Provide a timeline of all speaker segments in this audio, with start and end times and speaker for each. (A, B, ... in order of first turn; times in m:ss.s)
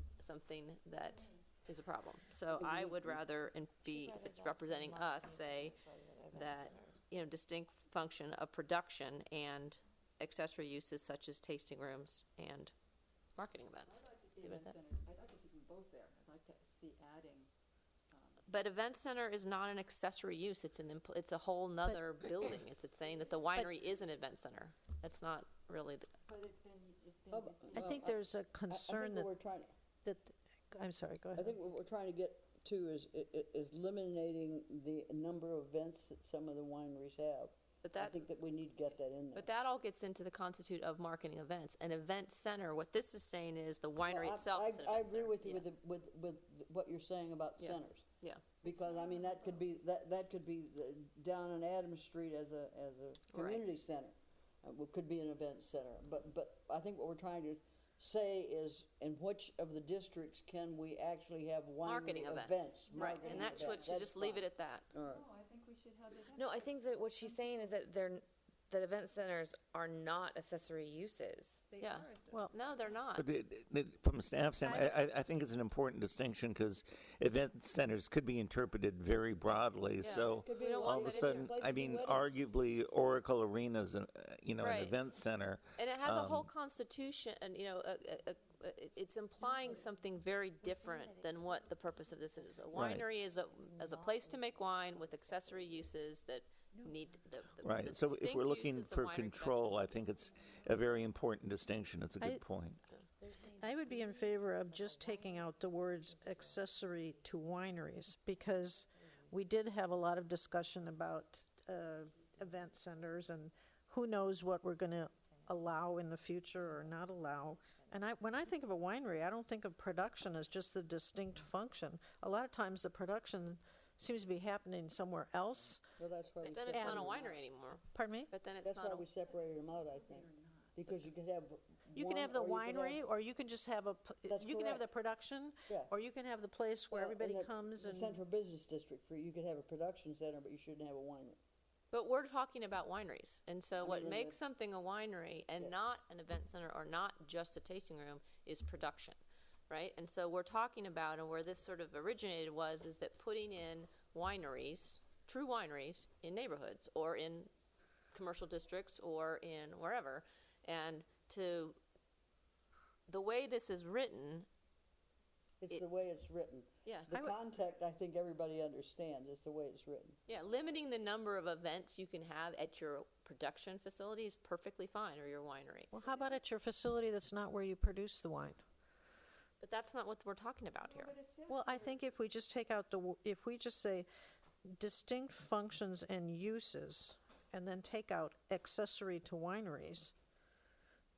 0:00.2-0:12.7 A
0:02.5-0:03.2 B
0:03.9-0:06.9 C
0:13.4-0:14.8 A
0:13.9-0:17.5 D
0:18.1-0:18.4 D
0:18.5-0:26.1 A
0:26.3-0:28.0 D
0:27.3-0:29.7 B
0:27.7-0:29.3 E
0:30.0-0:31.6 E
0:31.4-0:39.5 B
0:37.8-0:38.3 A
0:39.4-0:45.6 A
0:44.1-0:48.0 B
0:47.6-0:48.4 A
0:48.6-1:05.3 B
0:48.7-0:49.3 C
0:53.3-0:53.6 A
1:01.8-1:04.9 A
1:02.9-1:04.0 D
1:05.0-1:07.7 D
1:06.3-1:11.6 F
1:11.7-1:12.5 D
1:11.8-1:13.3 A
1:13.2-1:26.5 C
1:14.6-1:15.0 E
1:20.0-1:21.5 A
1:20.1-1:22.3 B
1:24.6-1:25.0 A
1:25.8-1:39.9 A
1:29.4-1:29.8 C
1:30.6-1:36.1 C
1:37.6-1:47.3 C
1:43.6-2:05.8 E
1:49.0-1:49.4 C
1:52.1-1:52.7 C
1:55.1-1:55.8 C
1:56.6-1:56.9 C
1:57.7-1:58.4 C
2:06.0-2:07.4 B
2:06.4-2:09.1 A
2:06.7-2:07.1 E
2:07.9-2:08.3 E
2:08.6-2:13.0 B
2:11.9-2:18.2 E
2:14.3-2:14.8 B
2:16.9-2:21.4 B
2:21.9-2:37.5 A
2:23.8-2:24.4 B
2:38.1-2:41.8 A
2:43.1-2:44.5 A
2:45.6-2:50.2 B
2:50.3-2:55.9 A
2:55.9-2:58.6 E
2:59.6-3:01.1 A
3:00.8-3:02.0 D
3:01.5-3:04.1 E
3:04.6-3:10.1 E